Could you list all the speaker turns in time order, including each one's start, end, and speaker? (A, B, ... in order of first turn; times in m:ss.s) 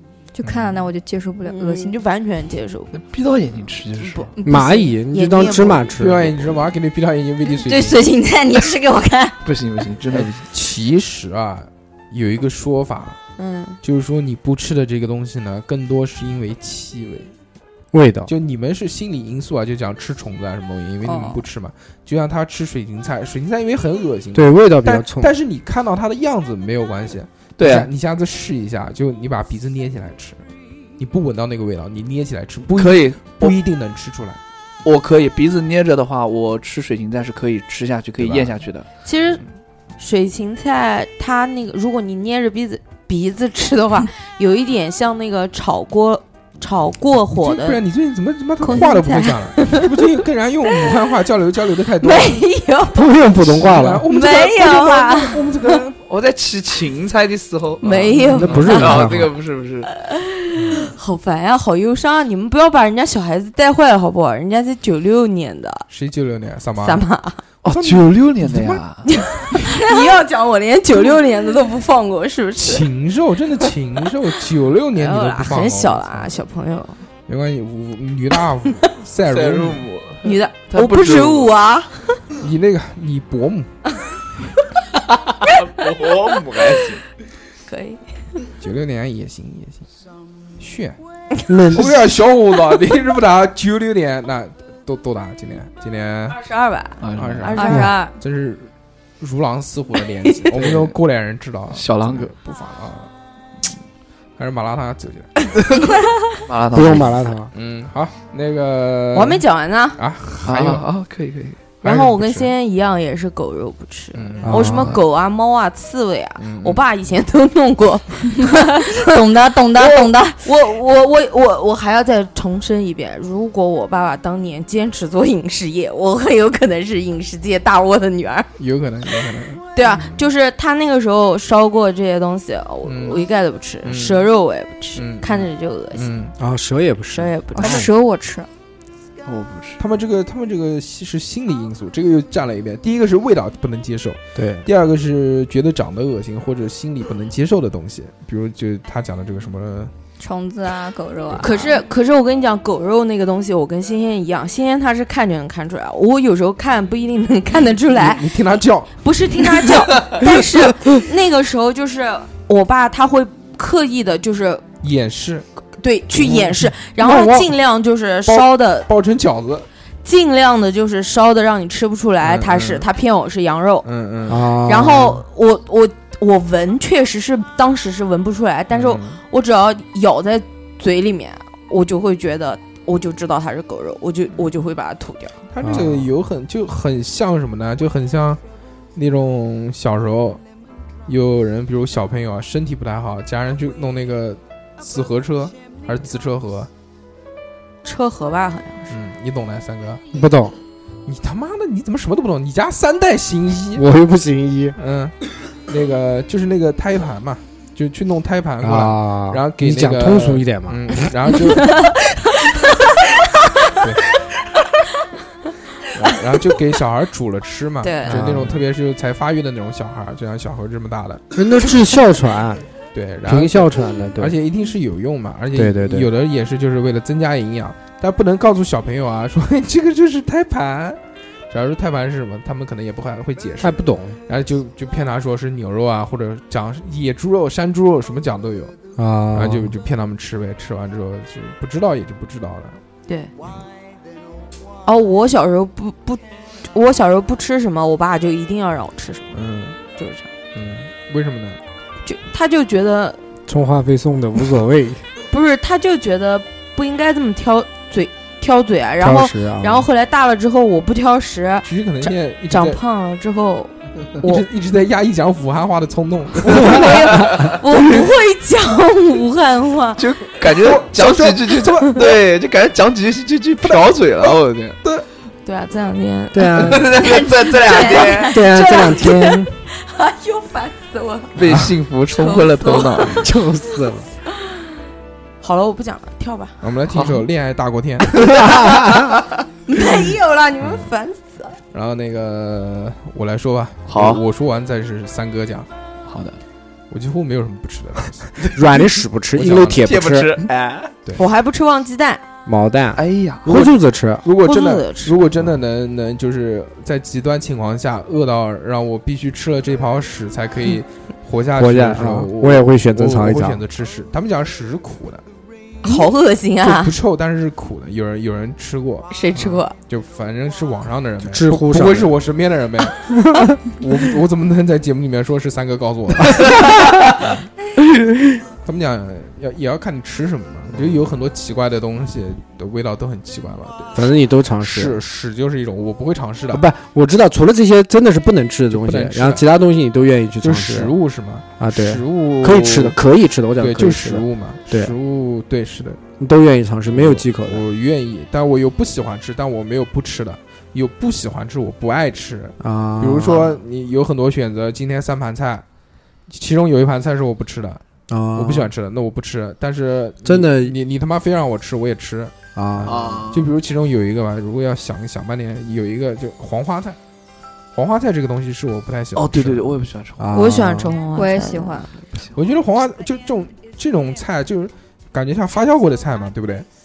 0:00.3-0:01.9 A
0:00.4-0:00.9 B
0:01.4-0:03.0 C
0:02.9-0:04.3 D
0:04.0-0:05.9 C
0:04.4-0:04.9 A
0:04.4-0:06.5 E
0:06.0-0:08.0 B
0:07.5-0:09.4 A
0:09.4-0:10.4 D
0:10.1-0:13.2 B
0:13.4-0:13.8 C
0:13.8-0:17.3 B
0:17.9-0:18.3 E
0:18.3-0:30.4 B
0:21.0-0:21.4 A
0:24.3-0:25.3 E
0:27.6-0:27.9 D
0:31.0-0:34.4 B
0:32.7-0:33.6 D
0:34.8-0:38.9 D
0:38.2-0:38.5 B
0:39.0-0:39.4 C
0:40.0-0:47.8 C
0:47.4-0:52.4 B
0:48.6-0:50.1 C
0:50.7-0:51.0 C
0:52.0-0:53.1 C
0:52.9-0:54.1 E
0:53.5-0:56.0 B
0:54.0-0:55.8 C
0:56.0-0:59.9 D
0:57.8-0:59.0 C
0:58.3-0:59.3 E
0:59.9-1:05.9 C
1:00.6-1:00.8 B
1:05.9-1:07.0 B
1:06.8-1:07.4 C
1:07.6-1:09.0 D
1:07.6-1:08.8 B
1:09.0-1:12.9 C
1:12.6-1:16.3 B
1:15.0-1:17.0 C
1:17.3-1:19.9 B
1:19.3-1:21.5 D
1:20.2-1:22.2 C
1:22.4-1:23.7 B
1:25.2-1:27.0 D
1:27.6-1:28.0 C
1:28.6-1:29.9 B
1:30.6-1:31.0 B
1:31.5-1:32.0 E
1:31.7-1:36.4 B
1:36.3-1:38.1 C
1:37.0-1:37.6 D
1:37.1-1:43.1 B
1:37.6-1:38.1 A
1:37.6-1:37.9 E
1:40.3-1:40.5 C
1:40.5-1:40.9 D
1:41.7-1:42.3 D
1:44.4-1:45.3 B
1:46.5-1:47.2 D
1:46.7-1:47.5 E
1:47.5-1:49.4 B
1:49.1-1:50.0 C
1:50.0-1:50.9 B
1:50.4-1:51.6 D
1:51.8-1:52.5 B
1:51.8-1:59.1 C
1:54.1-1:54.9 B
1:54.4-1:55.0 E
1:56.4-1:56.8 B
1:58.4-2:00.4 A
1:59.7-2:08.5 C
2:08.6-2:10.2 B
2:09.7-2:16.1 C
2:12.9-2:13.2 B
2:13.8-2:14.2 B
2:15.0-2:16.4 B
2:16.4-2:17.8 E
2:17.1-2:17.9 C
2:17.5-2:18.5 A
2:19.2-2:19.8 D
2:19.8-2:29.9 B
2:24.4-2:24.6 E
2:30.2-2:31.8 A
2:31.4-2:38.4 C
2:37.9-2:39.0 B
2:39.0-2:44.6 C
2:44.8-2:45.5 B
2:45.8-2:48.9 C
2:46.1-2:46.7 B
2:47.0-2:47.5 E
2:48.2-2:49.7 B
2:50.0-2:53.9 C
2:52.2-2:52.8 B
2:53.8-2:54.5 B
2:54.3-2:55.2 E
2:54.5-3:05.4 C
2:58.7-2:59.2 B
3:05.5-3:08.4 B
3:05.6-3:06.1 E
3:08.9-3:10.4 B
3:11.1-3:16.7 B
3:17.8-3:18.9 C
3:18.9-3:20.0 B
3:20.1-3:20.5 E
3:21.1-3:23.8 B
3:23.8-3:24.8 E
3:24.8-3:25.1 B
3:25.6-3:31.8 B
3:28.6-3:31.1 E
3:35.9-3:41.2 B
3:37.8-3:38.2 C
3:38.1-3:38.6 E
3:41.3-3:42.6 E
3:42.9-3:51.0 B
3:43.3-3:44.4 E
3:45.5-3:46.1 E
3:51.5-3:58.7 B
3:53.6-3:54.2 E
3:59.0-3:59.7 E
3:59.3-4:02.8 B
4:04.8-4:09.3 C
4:09.3-4:09.8 B
4:09.9-4:10.3 C
4:10.5-4:11.6 B
4:12.0-4:13.2 C
4:13.5-4:15.0 E
4:15.3-4:24.5 C
4:19.0-4:19.9 E
4:21.6-4:22.8 B
4:24.2-4:26.9 B
4:26.4-4:30.0 C
4:30.0-4:34.8 D
4:30.5-4:32.0 B
4:33.6-4:35.1 B
4:35.4-4:41.4 C
4:36.3-4:36.9 E
4:36.6-4:38.5 D
4:38.2-4:39.5 E
4:41.4-4:43.3 D
4:42.1-4:43.3 C
4:43.2-4:44.1 E
4:45.4-4:46.6 C
4:46.6-4:48.1 B
4:46.9-4:47.2 D
4:48.2-4:49.1 D
4:48.2-4:49.1 E
4:49.6-4:51.6 C
4:50.6-4:50.9 B
4:51.7-4:55.7 B
4:53.9-4:54.2 D
4:56.1-4:56.4 D
4:56.9-4:58.5 B
4:58.4-5:00.4 E
4:59.4-4:59.9 B
4:59.7-5:00.9 D
5:01.2-5:02.2 C
5:02.5-5:04.2 E
5:03.0-5:03.7 D
5:04.2-5:15.2 B
5:04.4-5:05.2 C
5:11.6-5:13.6 E
5:15.8-5:16.9 C
5:16.6-5:23.0 B
5:19.1-5:19.8 C
5:21.2-5:22.1 E
5:23.0-5:23.6 E
5:23.7-5:26.5 B
5:27.2-5:27.4 B
5:28.6-5:36.6 B
5:33.9-5:35.0 E
5:36.5-5:40.9 E
5:38.7-5:39.4 B
5:40.4-5:43.0 B
5:41.6-5:44.9 E
5:43.6-5:46.0 B
5:46.2-5:47.6 E
5:46.9-5:55.6 B
5:52.6-5:53.6 E
5:56.3-5:57.8 B
5:58.1-5:58.7 E
5:58.4-6:07.0 B
6:00.2-6:00.8 E
6:02.5-6:03.3 E
6:02.8-6:03.5 D
6:07.7-6:09.8 B
6:09.2-6:10.5 D
6:10.2-6:11.0 E
6:10.3-6:11.9 C
6:11.1-6:11.9 A
6:12.3-6:16.6 B